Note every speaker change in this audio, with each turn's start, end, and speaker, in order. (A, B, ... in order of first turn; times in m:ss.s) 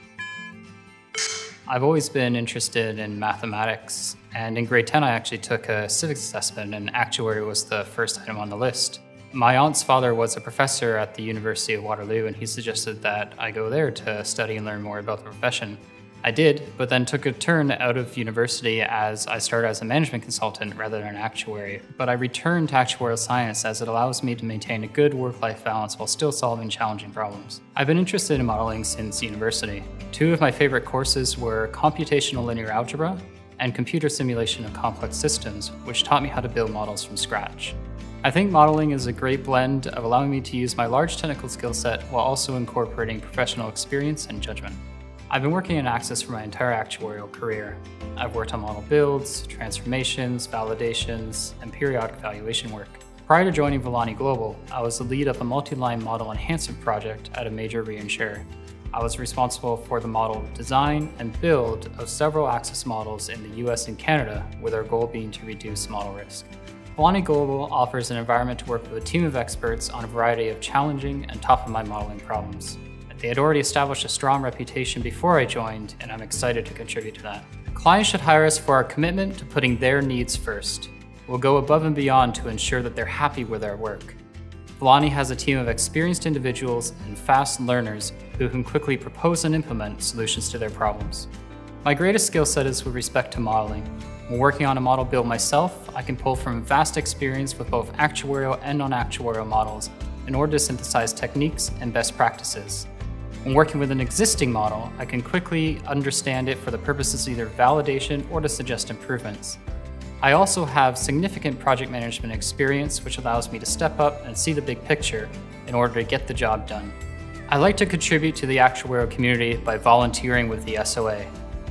0:01.7-1:24.2 A
1:24.8-1:31.3 A
1:31.8-1:42.9 A
1:43.4-1:49.6 A
1:50.2-1:57.0 A
1:57.5-2:01.3 A